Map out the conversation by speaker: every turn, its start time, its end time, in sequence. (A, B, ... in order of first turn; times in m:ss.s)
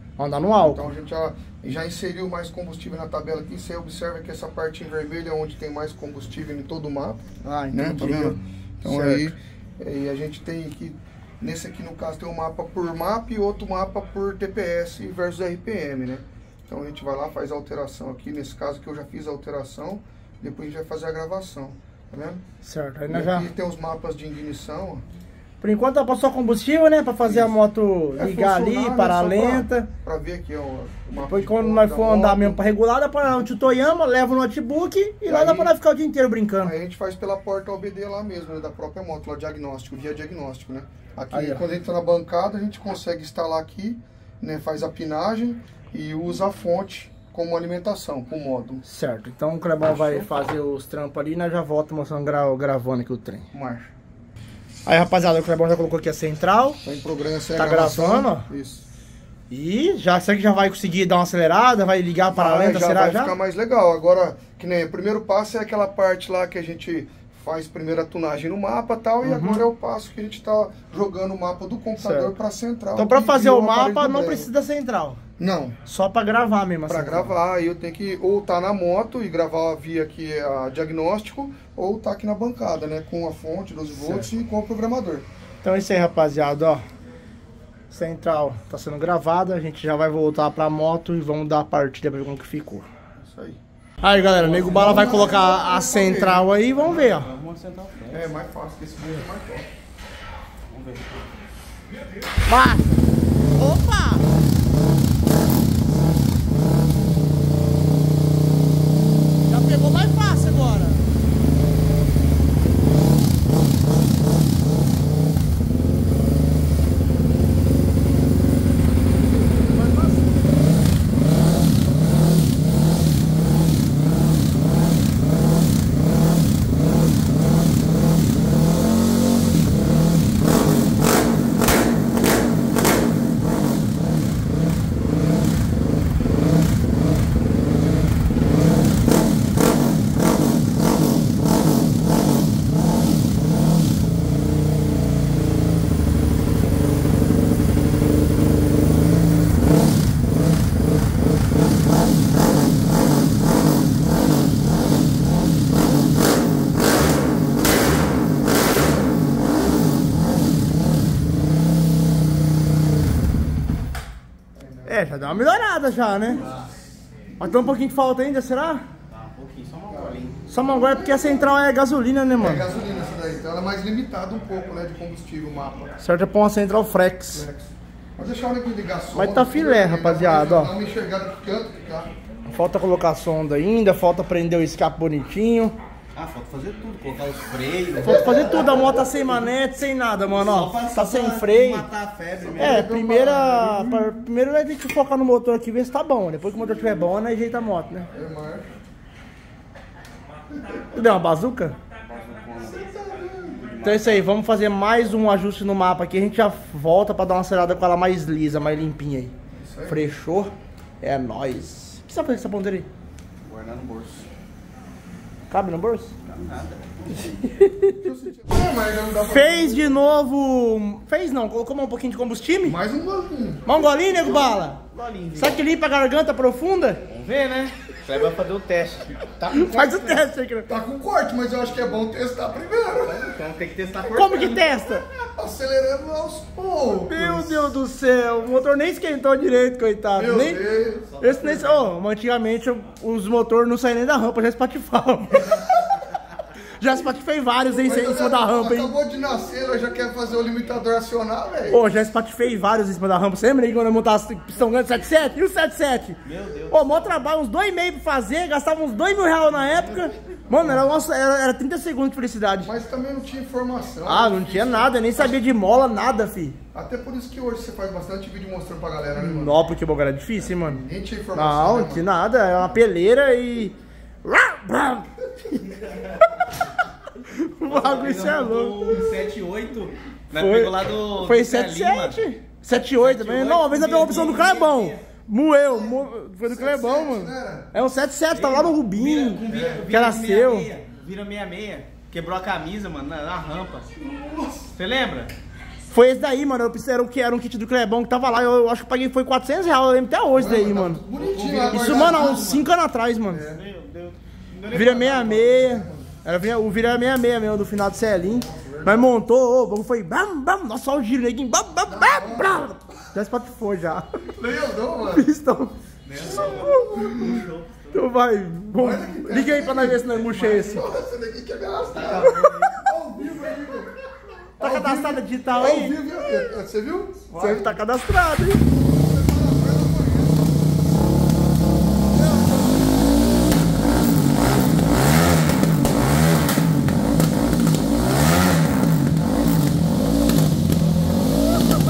0:00.2-0:00.9 A
0:00.6-0:22.4 B
0:07.4-0:09.3 A
0:22.6-0:23.5 A
0:23.1-0:25.0 B
0:25.6-0:29.9 A
0:27.2-0:27.5 B
0:28.2-0:32.6 B
0:31.2-0:36.7 A
0:35.2-0:35.7 B
0:36.6-0:48.8 B
0:41.3-0:41.6 A
0:48.8-0:53.5 A
0:49.9-0:50.3 B
0:53.5-0:53.9 B
0:54.8-0:56.8 A
0:56.8-0:58.8 B
0:57.5-0:58.5 A
0:59.5-1:03.3 A
1:02.3-1:14.5 B
1:09.2-1:09.6 A
1:12.0-1:12.3 A
1:13.0-1:15.2 A
1:15.4-1:15.8 B
1:15.8-1:17.3 A
1:16.9-1:25.2 B
1:24.0-1:24.3 A
1:25.6-1:26.8 A
1:27.9-1:32.9 A
1:33.2-1:33.6 B
1:34.0-1:37.3 A
1:34.2-1:35.2 C
1:34.7-1:36.5 B
1:36.7-1:38.3 C
1:38.1-1:39.7 B
1:40.7-1:41.2 C
1:42.5-1:43.0 A
1:43.5-1:44.2 A
1:49.5-1:51.0 A
1:59.5-2:00.3 A
2:44.6-2:45.2 B
2:44.8-2:46.4 A
2:46.4-2:46.7 C
2:47.4-2:48.8 A
2:49.1-2:50.4 C
2:49.9-2:51.5 B
2:50.5-2:52.7 A
2:52.4-2:55.9 B
2:56.0-2:57.5 A
2:57.3-3:02.1 B
2:59.1-3:00.7 A
3:02.5-3:05.7 A
3:06.1-3:09.4 C
3:07.9-3:09.1 B
3:08.0-3:11.9 A
3:10.3-3:12.9 C
3:12.4-3:14.1 B
3:12.6-3:18.1 A
3:18.1-3:18.7 B
3:20.9-3:21.8 A
3:22.0-3:22.8 C
3:22.7-3:23.6 B
3:23.5-3:24.3 C
3:23.8-3:29.3 A
3:29.6-3:30.0 B
3:29.9-3:32.9 A
3:33.4-3:34.3 C
3:35.5-3:36.1 A
3:36.2-3:37.4 C
3:37.4-3:38.0 A
3:37.9-3:40.0 B
3:39.2-3:42.8 A
3:42.6-3:43.7 B
3:43.6-3:44.8 A
3:43.9-3:45.6 C
3:45.3-3:47.0 A
3:47.1-3:50.2 C
3:49.5-3:50.7 A
3:50.7-3:53.4 B
3:53.0-3:54.8 C
3:54.1-3:55.0 A
3:55.1-3:57.6 B
3:57.1-4:00.6 A
4:00.1-4:01.2 B
4:01.2-4:06.0 A
4:01.2-4:01.9 C
4:06.8-4:08.9 A
4:07.8-4:11.8 B
4:11.7-4:16.2 A
4:16.2-4:17.2 C
4:16.7-4:22.7 A
4:19.7-4:20.8 C
4:22.6-4:25.4 B
4:24.0-4:26.6 A
4:26.7-4:29.6 B
4:29.2-4:30.8 A
4:30.5-4:32.1 B
4:31.3-4:39.0 A
4:35.8-4:36.1 C
4:37.6-4:42.2 C
4:40.3-4:50.7 A
4:42.9-4:45.0 C
4:45.7-4:47.7 B
4:48.3-4:54.0 C
4:49.5-4:49.9 B
4:54.0-4:54.7 B
4:54.7-4:55.3 C
4:55.9-5:01.0 A
5:00.3-5:02.5 B
5:01.1-5:02.6 C
5:01.7-5:03.5 A
5:03.3-5:03.5 B
5:03.3-5:05.6 C
5:04.7-5:14.2 A
5:05.5-5:06.1 B
5:08.3-5:09.1 B
5:11.9-5:12.9 B
5:14.2-5:15.3 B
5:15.1-5:20.8 A
5:16.0-5:18.1 C
5:16.2-5:17.4 B
5:18.7-5:27.7 B
5:21.9-5:22.8 C
5:24.6-5:26.3 A
5:27.3-5:28.6 A
5:28.9-5:30.7 B
5:32.1-5:32.7 B